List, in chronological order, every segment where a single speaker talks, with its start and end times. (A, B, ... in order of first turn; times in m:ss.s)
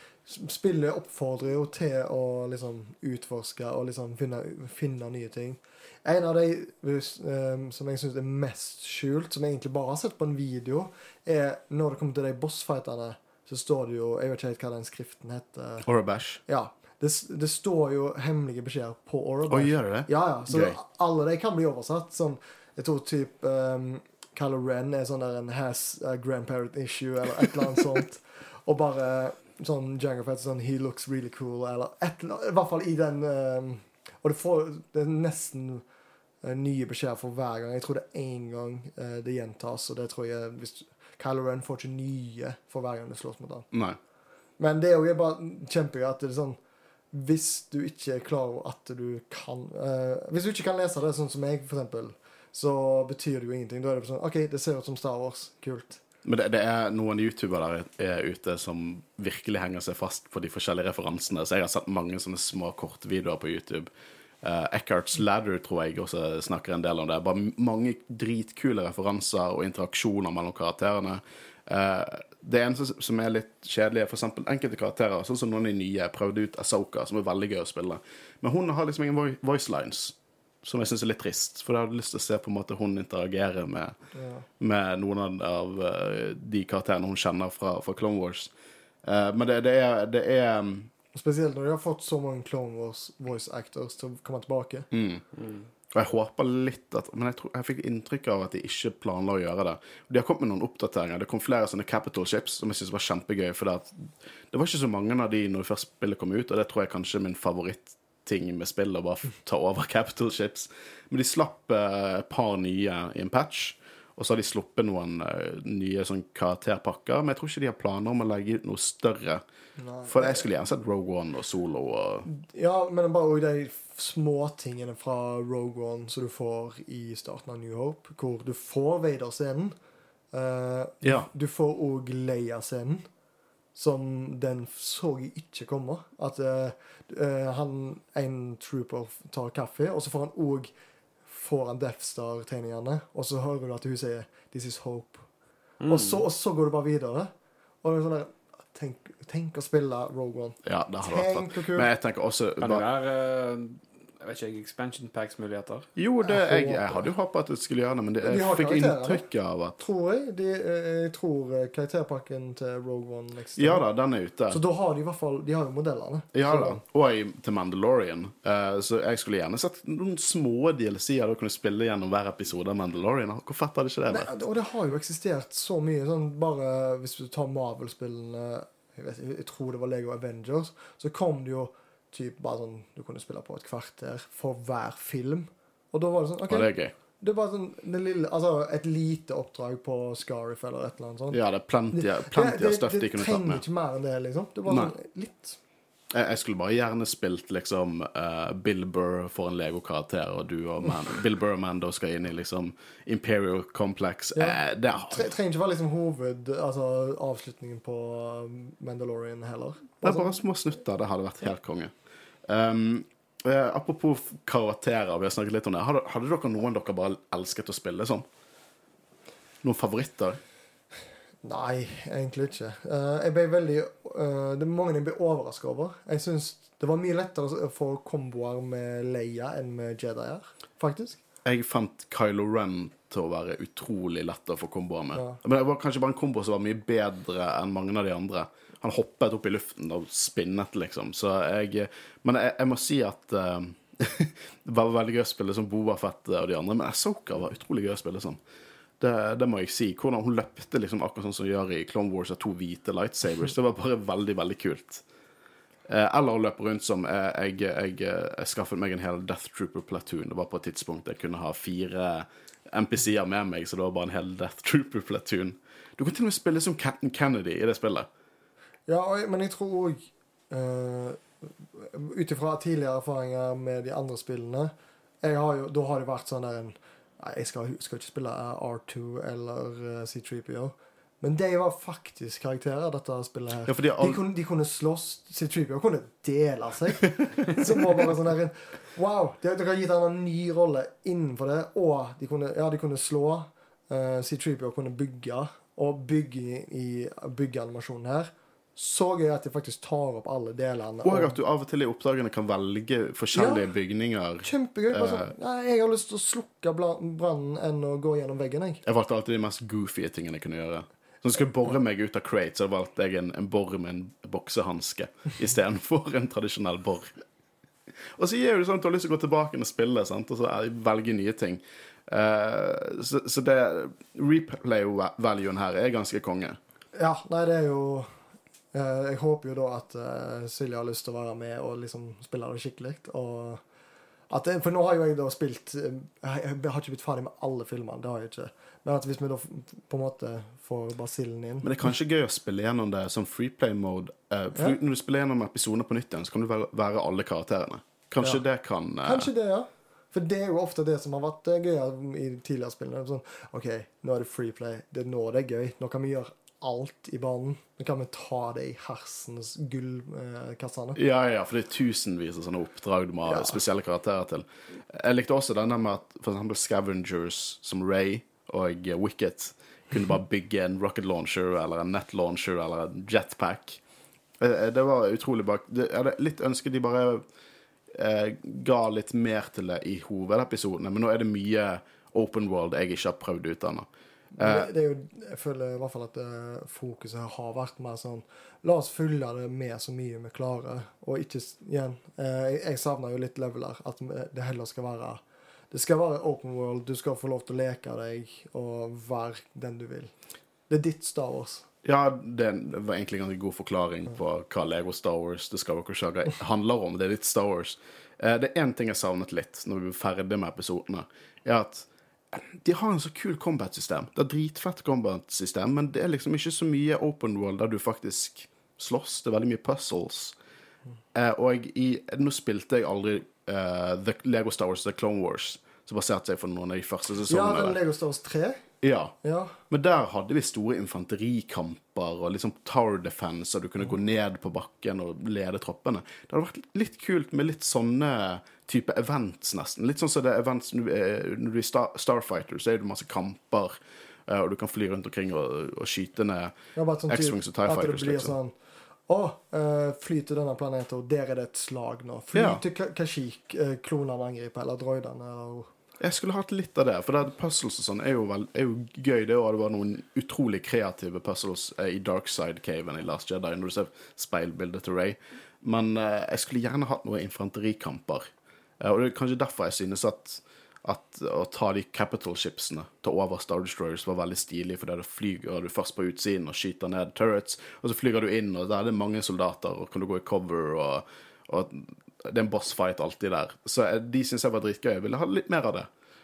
0:00.2-0:15.9 A
0:15.8-0:16.4 B
0:16.4-0:35.8 A
0:19.5-0:20.8 B
0:36.4-0:43.7 A
0:43.7-0:44.0 B
0:44.6-0:46.6 A
0:47.1-0:56.0 A
0:56.2-1:03.9 B
1:04.4-1:23.9 B
1:24.1-1:24.5 A
1:24.6-1:28.5 B
1:29.0-1:30.9 B
1:31.1-1:34.9 A
1:34.9-1:35.2 B
1:35.9-1:59.4 B
1:59.8-2:00.4 A
2:00.0-2:02.2 B
2:02.2-2:09.7 A
2:10.3-2:13.0 A
2:11.0-2:11.3 B
2:13.7-2:20.7 A
2:21.3-2:25.3 A
2:25.8-2:26.2 C
2:25.9-2:27.3 A
2:27.8-2:31.9 A
2:30.6-2:32.8 B
2:32.6-2:35.9 C
2:36.0-2:39.8 B
2:36.2-2:37.1 A
2:38.2-2:39.2 A
2:39.8-2:43.8 A
2:43.6-2:44.6 B
2:44.5-2:46.8 A
2:46.3-2:54.3 B
2:54.1-3:11.4 A
3:06.5-3:06.9 B
3:11.3-3:13.6 B
3:11.9-3:15.6 A
3:14.7-3:14.9 B
3:16.1-3:25.3 B
3:24.3-3:30.4 A
3:30.0-3:31.9 B
3:32.4-3:38.2 B
3:39.6-3:40.4 B
3:41.4-3:51.2 A
3:51.4-4:08.4 B
3:55.1-3:55.4 A
4:09.0-4:15.0 B
4:15.9-4:28.1 B
4:28.9-4:34.7 A
4:35.2-5:01.4 A
4:43.6-4:44.2 B
5:01.0-5:05.3 B
5:03.3-5:03.7 A
5:04.4-5:08.8 A
5:08.8-5:17.1 B
5:18.2-5:26.6 B
5:26.9-5:28.1 A
5:28.7-5:33.6 A
5:34.3-5:41.7 A
5:41.6-5:49.3 B
5:49.0-6:01.0 A
6:01.0-6:13.8 B
6:03.2-6:03.6 A
6:14.4-6:17.2 B
6:17.9-6:23.9 B
6:24.4-6:24.7 B
6:24.4-6:40.1 A
6:40.7-6:41.7 A
6:41.8-7:00.4 B
7:01.1-7:07.8 B
7:07.3-7:08.6 A
7:08.8-7:09.2 B
7:09.2-7:09.6 A
7:09.7-7:23.7 B
7:24.3-7:26.5 B
7:26.7-7:28.5 A
7:27.1-7:28.3 B
7:29.1-7:35.7 A
7:32.3-7:32.6 B
7:36.0-7:48.3 B
7:48.8-8:05.9 B